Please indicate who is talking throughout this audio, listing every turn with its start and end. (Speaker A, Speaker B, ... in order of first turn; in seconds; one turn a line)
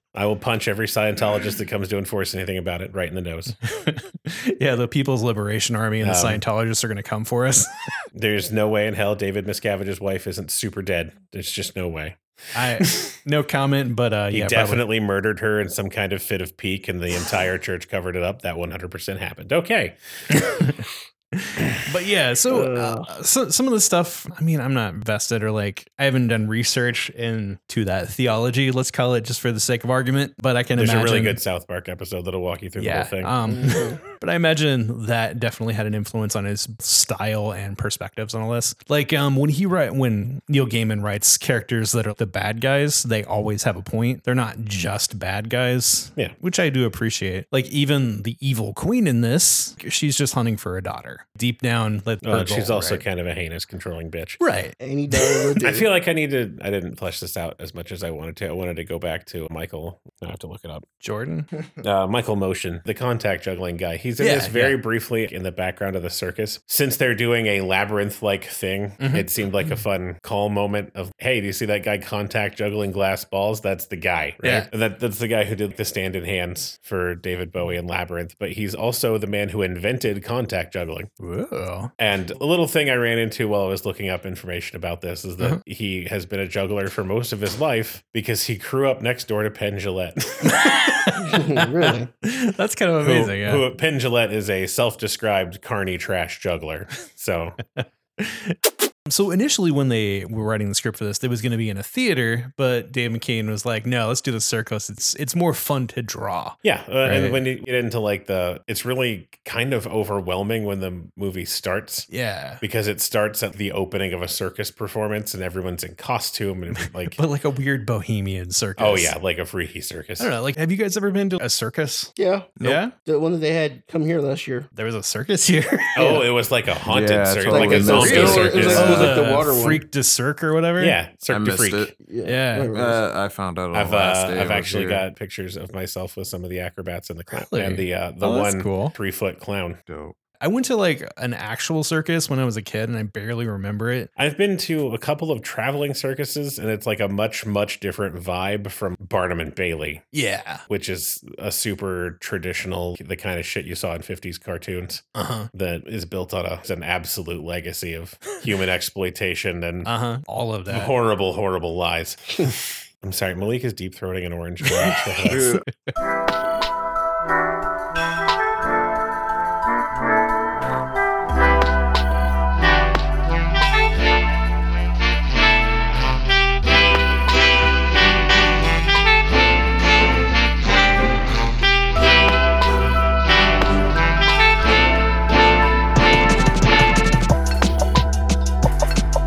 Speaker A: 0.1-3.5
Speaker B: 3.7-7.9
Speaker A: 6.0-6.4
Speaker A: 8.1-12.2
Speaker B: 12.5-14.8
Speaker A: 12.8-13.1
Speaker A: 14.3-20.0
Speaker B: 20.3-31.4
Speaker C: 22.5-23.1
Speaker A: 30.8-33.3
Speaker B: 32.8-53.0
Speaker C: 33.5-34.0
Speaker A: 52.2-54.4
Speaker B: 54.4-55.5
Speaker C: 54.8-55.9
Speaker A: 55.6-60.9
Speaker B: 61.0-61.5
Speaker A: 61.8-81.1
Speaker B: 64.2-64.8
Speaker B: 69.0-69.8
Speaker B: 74.4-74.7
Speaker B: 81.2-81.9
Speaker A: 82.0-90.8
Speaker B: 90.4-93.6
Speaker C: 91.2-92.1
Speaker A: 93.0-97.6
Speaker B: 97.8-107.4
Speaker A: 106.6-117.2
Speaker B: 112.1-112.6
Speaker B: 116.8-119.1
Speaker A: 118.8-120.3
Speaker B: 120.2-122.9
Speaker C: 122.2-124.7
Speaker B: 124.7-126.2
Speaker A: 126.0-129.2
Speaker C: 126.0-126.2
Speaker D: 126.9-129.1
Speaker C: 127.5-129.8
Speaker B: 128.0-131.0
Speaker A: 130.8-131.9
Speaker D: 131.3-131.9
Speaker C: 132.0-133.0
Speaker B: 132.2-132.7
Speaker D: 132.7-135.0
Speaker A: 133.7-139.8
Speaker B: 137.3-138.9
Speaker D: 139.9-140.1
Speaker B: 140.4-144.1
Speaker A: 144.2-150.0
Speaker B: 150.1-150.6
Speaker A: 150.7-159.9
Speaker B: 155.1-155.5
Speaker B: 159.8-160.9
Speaker A: 160.7-165.5
Speaker B: 164.6-165.9
Speaker D: 165.3-165.6